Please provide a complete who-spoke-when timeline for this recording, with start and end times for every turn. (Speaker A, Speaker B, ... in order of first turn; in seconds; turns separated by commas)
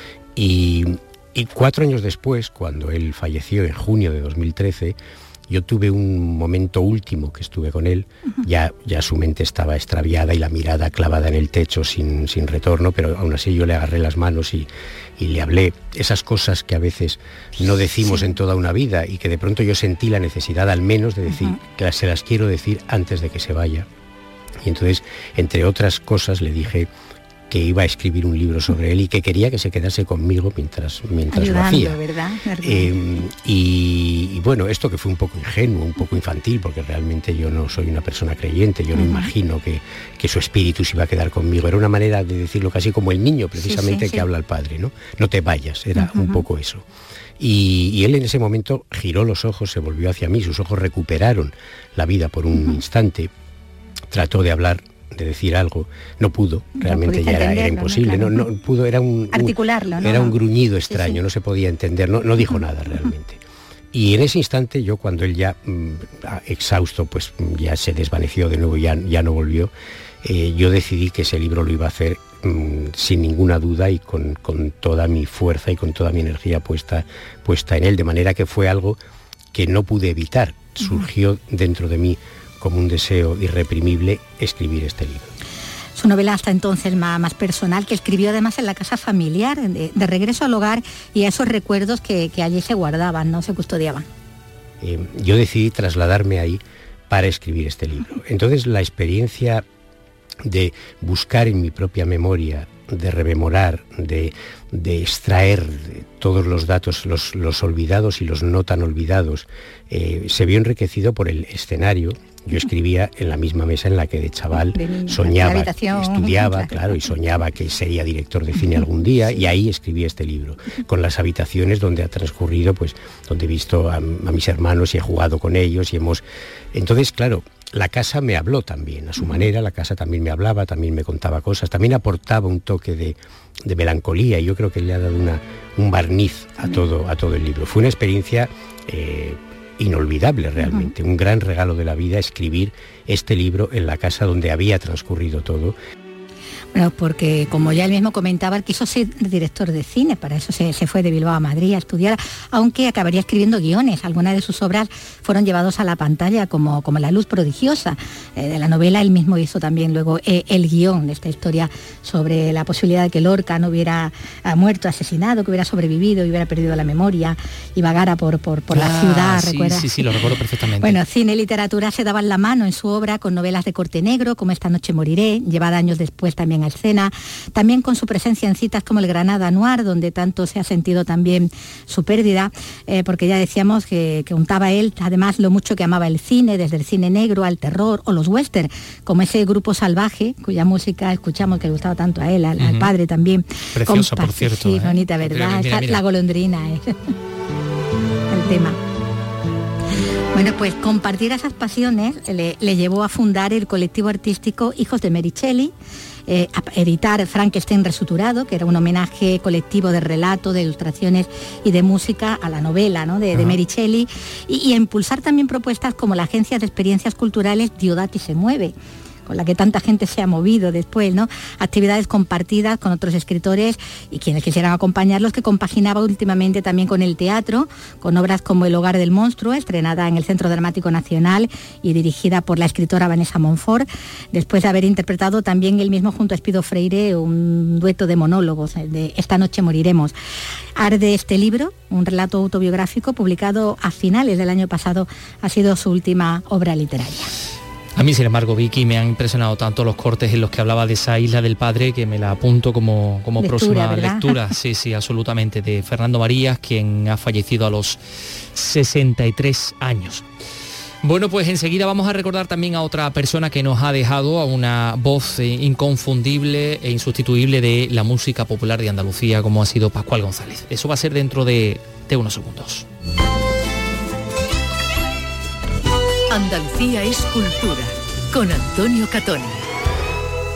Speaker A: 0.3-5.0, Speaker A: 5.5-23.9, Speaker B: 21.3-21.6, Speaker A: 24.6-26.9, Speaker A: 27.5-32.0, Speaker B: 31.3-32.9, Speaker A: 32.6-46.8, Speaker B: 38.9-39.3, Speaker B: 43.6-44.2, Speaker B: 46.0-46.4, Speaker A: 47.4-53.3, Speaker A: 54.1-63.4, Speaker B: 56.8-58.4, Speaker B: 59.3-60.4, Speaker B: 60.9-61.2, Speaker A: 63.9-69.7, Speaker A: 70.2-79.0, Speaker A: 79.5-85.3, Speaker B: 85.9-94.0, Speaker A: 94.8-99.6, Speaker A: 100.4-145.8, Speaker B: 114.7-116.8, Speaker B: 140.6-140.9, Speaker B: 146.7-170.0, Speaker C: 168.7-171.0, Speaker B: 170.8-196.9, Speaker C: 192.6-192.9, Speaker C: 193.7-196.0, Speaker B: 198.3-198.8, Speaker B: 200.3-205.7, Speaker B: 206.3-218.7, Speaker C: 213.3-213.6, Speaker B: 219.2-240.1, Speaker B: 240.8-247.3, Speaker C: 247.9-258.0, Speaker B: 253.4-254.5, Speaker C: 258.5-260.2, Speaker C: 261.0-272.9, Speaker D: 276.3-279.6